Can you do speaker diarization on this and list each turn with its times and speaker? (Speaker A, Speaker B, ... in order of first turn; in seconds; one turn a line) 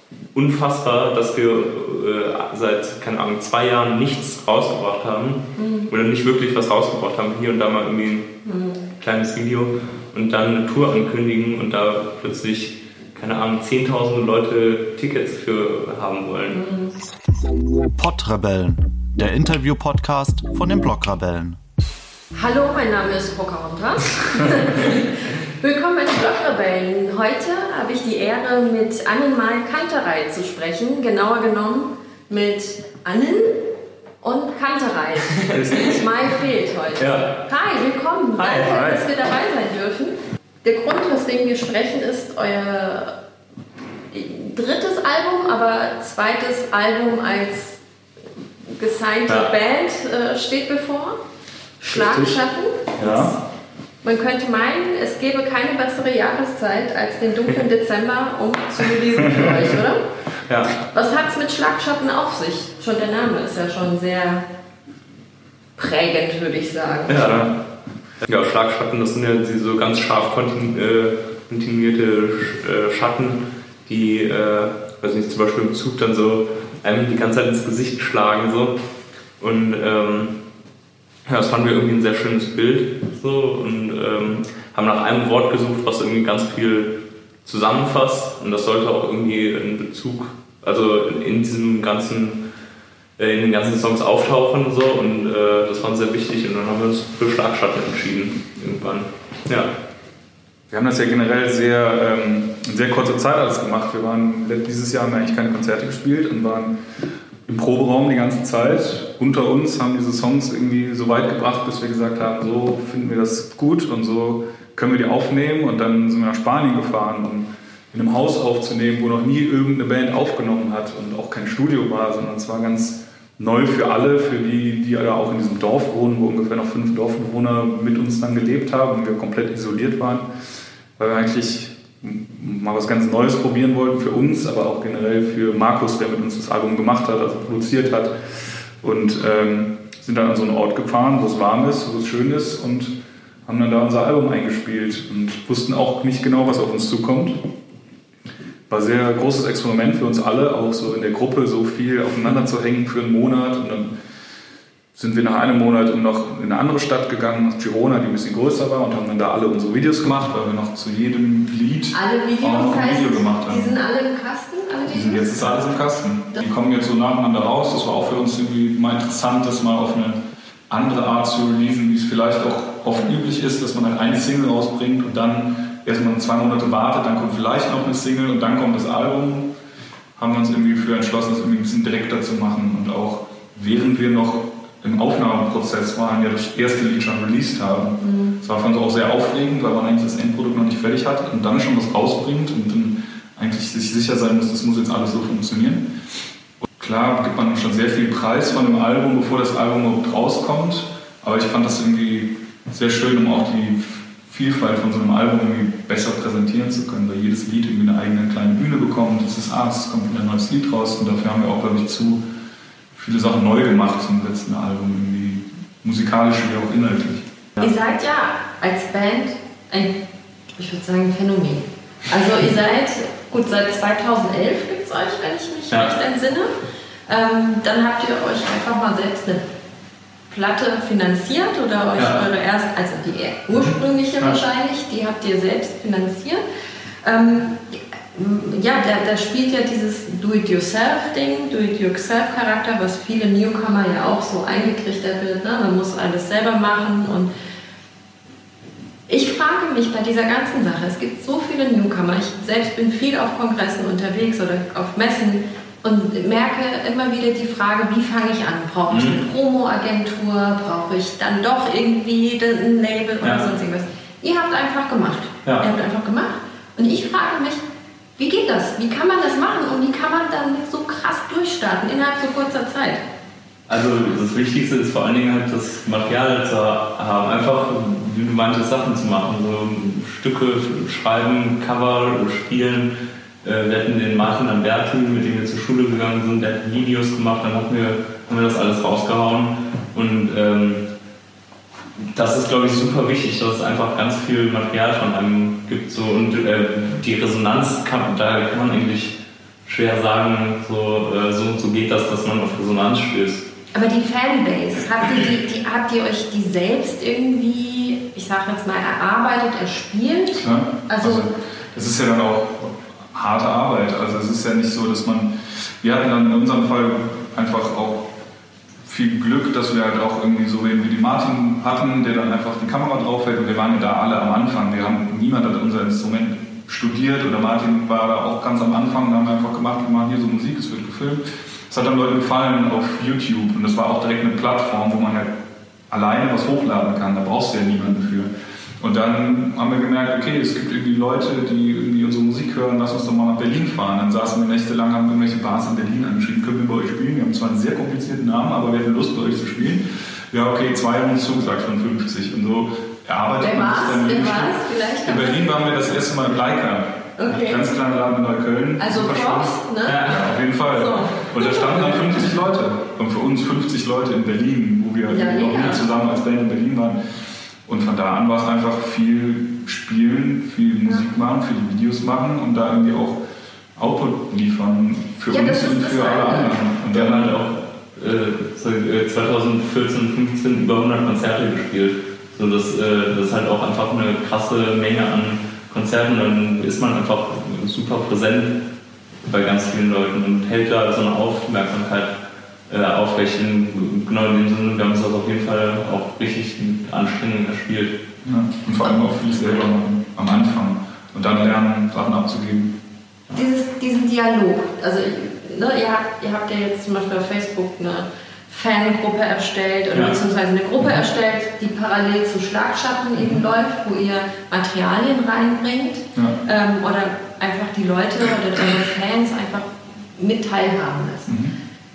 Speaker A: 0.3-8.3
Speaker B: 5.6-5.9
Speaker B: 8.4-8.8
Speaker A: 9.0-16.6
Speaker B: 16.5-16.9
Speaker C: 17.9-21.6
Speaker B: 22.4-33.7
Speaker B: 34.2-43.1
Speaker A: 35.3-36.0
Speaker A: 37.0-37.4
Speaker A: 38.4-39.0
Speaker B: 44.1-47.8
Speaker B: 48.7-51.2
Speaker A: 49.3-49.5
Speaker B: 51.8-53.4
Speaker D: 51.9-52.3
Speaker A: 53.0-53.3
Speaker D: 53.0-53.3
Speaker B: 54.0-60.0
Speaker A: 60.5-60.7
Speaker B: 60.7-64.5
Speaker B: 65.8-67.3
Speaker A: 67.1-67.6
Speaker D: 67.3-67.5
Speaker A: 68.2-78.8
Speaker A: 79.4-80.4
Speaker A: 81.3-92.5
Speaker A: 93.2-99.7
Speaker D: 100.7-106.8
Speaker D: 107.5-130.3
Speaker D: 131.0-138.1
Speaker D: 138.8-142.9
Speaker D: 143.5-147.4
Speaker D: 148.7-153.9
Speaker D: 154.9-163.8
Speaker B: 161.9-165.8
Speaker D: 164.9-179.5
Speaker D: 180.2-195.9
Speaker B: 188.0-188.4
Speaker D: 196.8-212.2
Speaker D: 212.9-217.3
Speaker B: 217.6-220.0
Speaker B: 220.5-226.5
Speaker A: 225.7-225.9
Speaker B: 227.1-229.4
Speaker B: 230.3-236.4
Speaker A: 232.0-232.3
Speaker B: 237.0-247.3
Speaker B: 249.1-267.6
Speaker A: 258.9-259.2
Speaker A: 263.2-263.5
Speaker B: 268.2-273.0
Speaker A: 273.7-290.9
Speaker A: 292.1-303.5
Speaker B: 303.7-311.3
Speaker D: 310.4-318.1
Speaker D: 318.9-335.3
Speaker D: 335.9-367.0
Speaker B: 353.4-355.5
Speaker B: 357.2-357.7
Speaker B: 358.8-361.9
Speaker A: 359.8-360.3
Speaker B: 365.1-365.9
Speaker D: 367.7-373.2
Speaker D: 373.8-377.4
Speaker B: 375.3-376.6
Speaker A: 376.9-388.7
Speaker A: 389.3-398.0
Speaker D: 398.2-402.8
Speaker B: 403.3-421.4
Speaker A: 409.9-410.2
Speaker D: 421.3-421.6